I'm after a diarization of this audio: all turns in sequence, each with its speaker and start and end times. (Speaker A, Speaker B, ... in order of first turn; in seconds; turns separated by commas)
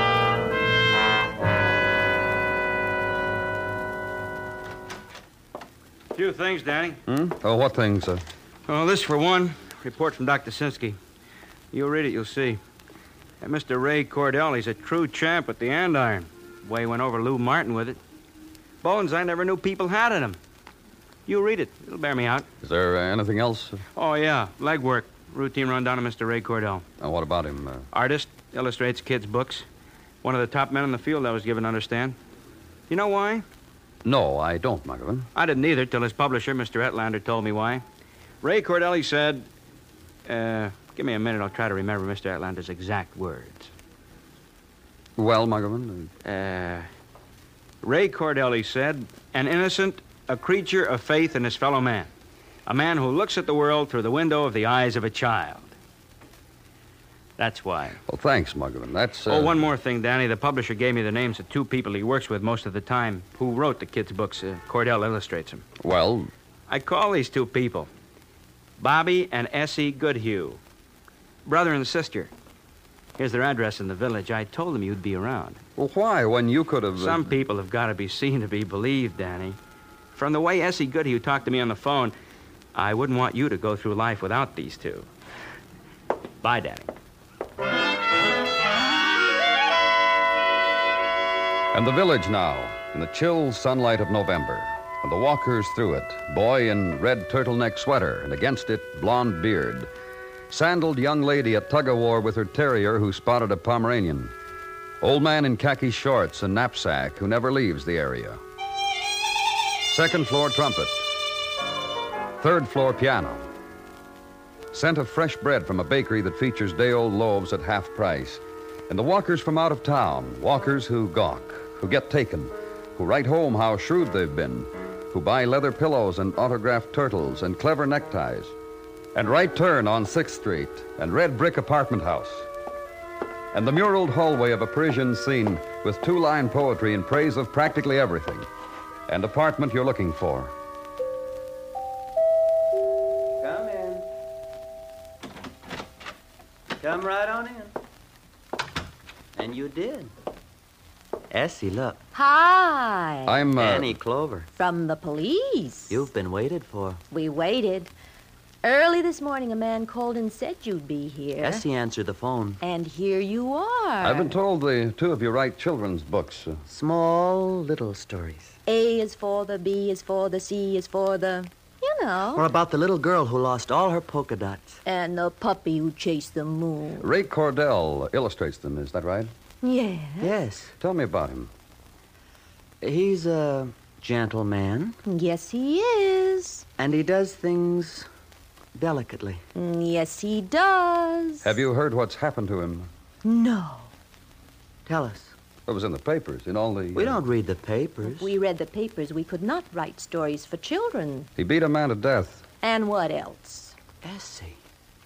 Speaker A: 6.1-7.0, Speaker B: 7.1-8.2, Speaker A: 8.7-11.0, Speaker A: 11.7-12.6, Speaker A: 13.4-18.0, Speaker A: 18.8-20.4, Speaker A: 21.3-22.5, Speaker B: 22.6-23.8, Speaker A: 23.9-26.8, Speaker B: 27.0-27.9, Speaker A: 27.9-29.6, Speaker A: 30.2-32.2, Speaker A: 32.9-33.4, Speaker B: 34.0-35.3, Speaker A: 35.3-37.8, Speaker A: 38.4-39.5, Speaker A: 40.2-43.7, Speaker B: 45.2-46.1, Speaker A: 46.2-46.9, Speaker A: 47.8-52.1, Speaker A: 52.6-55.7, Speaker A: 57.4-58.0, Speaker B: 58.0-59.6, Speaker A: 59.2-65.6, Speaker B: 65.8-66.3, Speaker A: 66.7-67.9, Speaker A: 68.8-70.6, Speaker A: 71.4-72.3, Speaker A: 73.2-75.6, Speaker B: 75.8-77.3, Speaker A: 77.0-79.6, Speaker A: 80.1-82.1, Speaker A: 82.7-85.1, Speaker A: 86.4-86.9, Speaker B: 91.7-99.9, Speaker B: 100.5-104.3, Speaker B: 105.0-108.4, Speaker B: 109.9-111.0, Speaker B: 112.4-113.5, Speaker B: 114.7-128.5, Speaker B: 129.1-132.5, Speaker B: 133.5-138.5, Speaker B: 139.1-140.5, Speaker C: 143.4-144.0, Speaker C: 146.8-147.7, Speaker C: 149.3-150.1, Speaker C: 151.3-152.0, Speaker D: 152.1-153.5, Speaker B: 153.2-154.0, Speaker C: 153.6-154.5, Speaker D: 154.5-156.0, Speaker C: 155.9-157.0, Speaker D: 157.1-157.9, Speaker D: 158.6-161.6, Speaker C: 161.4-162.6, Speaker D: 162.6-164.3, Speaker B: 164.0-166.6, Speaker C: 166.7-168.6, Speaker D: 168.7-172.5, Speaker C: 172.3-174.8, Speaker D: 174.8-177.1, Speaker B: 177.0-179.3, Speaker D: 179.6-180.3, Speaker C: 180.2-180.7, Speaker B: 180.8-181.5, Speaker C: 182.8-185.0, Speaker D: 185.0-186.7, Speaker C: 186.8-188.1, Speaker C: 188.7-189.4, Speaker D: 189.5-191.5, Speaker B: 191.4-192.9, Speaker D: 193.2-193.9, Speaker C: 194.8-195.3, Speaker B: 195.7-197.2, Speaker C: 196.9-198.3, Speaker D: 198.0-201.3, Speaker B: 201.4-202.4, Speaker D: 202.6-203.8, Speaker C: 204.0-204.6